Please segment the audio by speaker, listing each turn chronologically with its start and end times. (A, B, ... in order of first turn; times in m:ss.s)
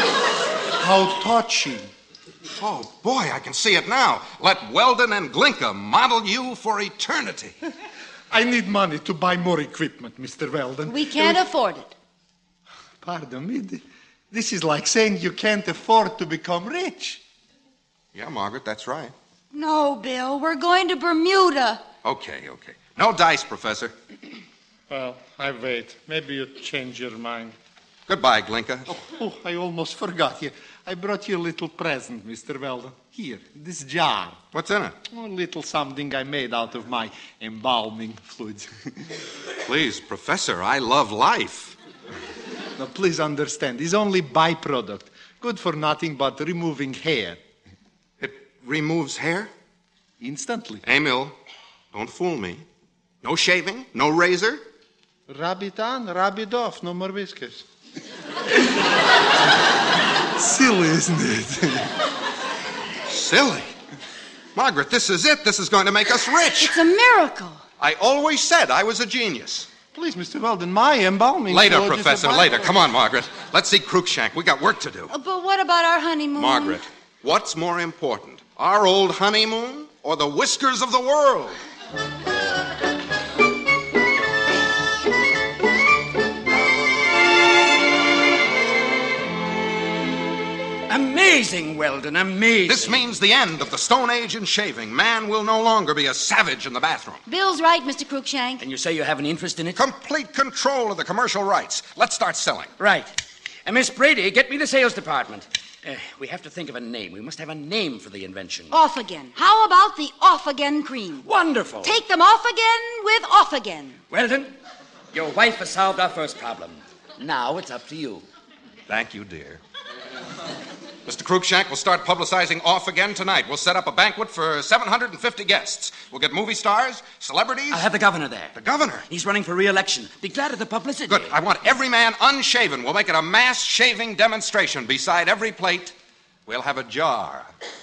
0:00.8-0:01.9 A
0:02.6-0:07.6 B
0:08.3-0:11.4 A
0:10.9-0:11.9 C
0:13.0-0:17.2 A
0:18.1-0:19.1 B
0:19.5-0:21.8 C
0:22.0-0:23.9 B
0:24.9-0:27.5 A
0:28.1-0:28.9 B
0:28.9-0:34.4 A
0:34.5-0:35.0 B
0:35.1-0:38.7 A
0:39.6-0:41.7 B
0:42.8-0:47.4 A
0:48.2-0:49.5 B
0:50.2-0:50.8 A
0:50.8-0:51.3 B
0:51.9-0:52.6 B
0:53.2-0:54.6 B
0:55.3-0:57.6 A
1:00.4-1:01.9 A
1:03.1-1:03.7 B
1:04.5-1:06.7 B
1:06.6-1:07.6 C
1:07.8-1:09.7 B
1:09.9-1:12.7 A
1:11.5-1:15.1 B
1:15.1-1:16.8 C
1:16.4-1:21.6 B
1:30.9-1:33.1 D
1:32.6-1:37.2 B
1:37.2-1:38.6 C
1:38.6-1:39.8 D
1:39.8-1:42.7 B
1:42.8-1:43.1 D
1:43.6-1:48.7 D
1:48.7-1:51.3 C
1:51.2-1:52.0 D
1:51.8-1:54.0 C
1:54.1-1:54.5 D
1:55.1-1:58.2 D
1:58.9-1:59.6 B
2:01.0-2:07.8 B
2:07.7-2:08.5 D
2:08.5-2:09.0 B
2:09.1-2:11.3 D
2:11.1-2:15.9 B
2:16.5-2:17.5 B